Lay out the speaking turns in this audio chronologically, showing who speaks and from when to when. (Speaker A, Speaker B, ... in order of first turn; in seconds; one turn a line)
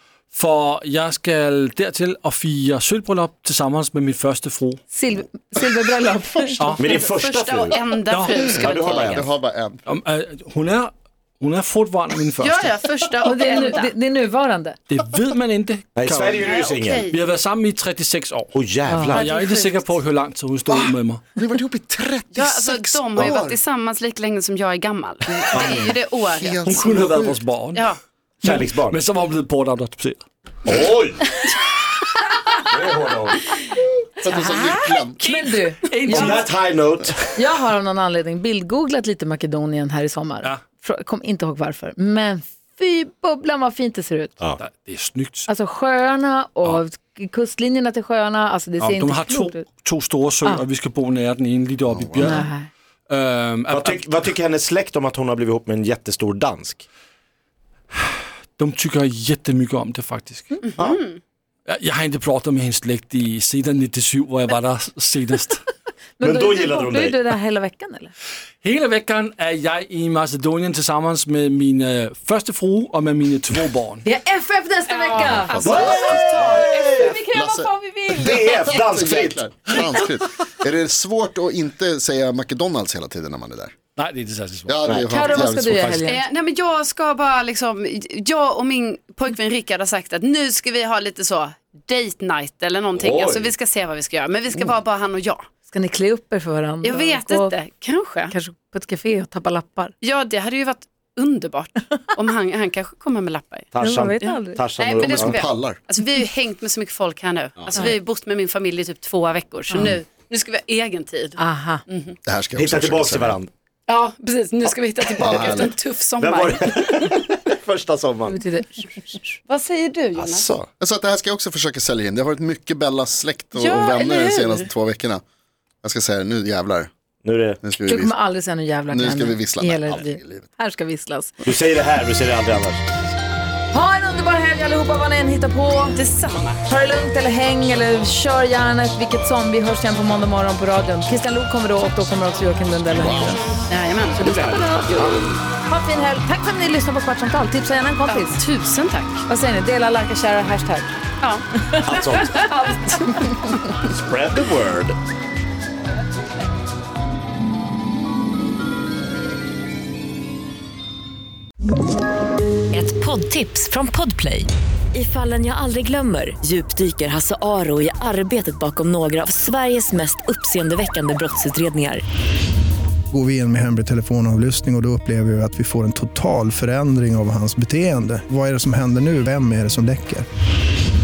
Speaker A: 0.3-4.8
Speaker B: 4.9-6.8
Speaker A: 6.6-6.9
Speaker C: 6.8-7.8
Speaker D: 6.8-9.2
Speaker A: 8.1-8.4
Speaker E: 8.4-9.8
Speaker C: 8.5-9.3
Speaker A: 9.9-12.7
Speaker D: 12.4-13.9
Speaker B: 13.2-14.8
Speaker A: 14.9-21.2
Speaker C: 16.0-17.1
Speaker D: 16.4-17.2
Speaker C: 18.5-19.3
Speaker B: 18.9-19.2
Speaker D: 19.1-19.8
Speaker E: 20.7-23.6
Speaker D: 22.3-26.7
Speaker E: 25.3-27.4
Speaker C: 25.5-25.9
Speaker A: 26.6-30.2
Speaker C: 28.4-29.0
Speaker C: 30.7-31.3
Speaker C: 32.6-33.4
Speaker E: 34.2-35.2
Speaker B: 34.2-36.5
Speaker A: 35.9-36.5
Speaker C: 36.1-37.2
Speaker B: 37.3-44.4
Speaker A: 44.6-45.5
Speaker B: 45.5-49.6
Speaker A: 48.8-52.5
Speaker E: 51.9-52.4
Speaker B: 52.2-52.7
Speaker A: 53.1-54.2
Speaker C: 53.7-56.9
Speaker A: 58.6-60.6
Speaker D: 60.7-61.2
Speaker A: 61.7-65.7
Speaker B: 66.2-68.1
Speaker C: 66.2-67.2
Speaker A: 68.6-74.0
Speaker B: 74.0-78.7
Speaker D: 74.9-77.2
Speaker E: 75.3-76.6
Speaker A: 75.5-75.9
Speaker C: 75.8-77.2
Speaker E: 77.2-83.7
Speaker C: 78.1-79.5
Speaker A: 84.0-86.2
Speaker E: 84.7-85.9
Speaker B: 85.0-86.2
Speaker D: 86.1-95.4
Speaker C: 93.0-93.5
Speaker B: 95.7-97.5
Speaker D: 96.8-98.3
Speaker B: 98.3-100.0
Speaker D: 100.0-103.7
Speaker C: 103.7-105.4
Speaker B: 103.8-104.6
Speaker D: 104.2-112.2
Speaker E: 105.0-105.8
Speaker C: 107.6-108.0
Speaker B: 109.7-110.0
Speaker B: 111.4-111.8
Speaker E: 112.3-113.4
Speaker C: 112.5-113.5
Speaker D: 113.9-117.2
Speaker E: 115.2-115.7
Speaker C: 116.2-118.4
Speaker B: 118.3-119.4
Speaker D: 119.5-120.5
Speaker C: 120.2-120.7
Speaker E: 120.8-125.2
Speaker D: 123.5-124.7
Speaker E: 125.8-126.9
Speaker C: 127.2-127.6
Speaker E: 127.6-128.2
Speaker B: 127.8-131.5
Speaker E: 128.9-130.5
Speaker C: 131.4-132.8
Speaker B: 133.7-136.0
Speaker D: 135.9-136.6
Speaker B: 136.7-143.4
Speaker E: 143.0-143.4
Speaker D: 143.7-145.4
Speaker C: 144.2-145.0
Speaker B: 144.2-148.4
Speaker D: 148.1-149.2
Speaker B: 149.3-150.9
Speaker B: 151.7-153.4
Speaker C: 151.8-152.5
Speaker C: 153.8-155.0
Speaker F: 162.7-172.0
Speaker G: 173.1-180.3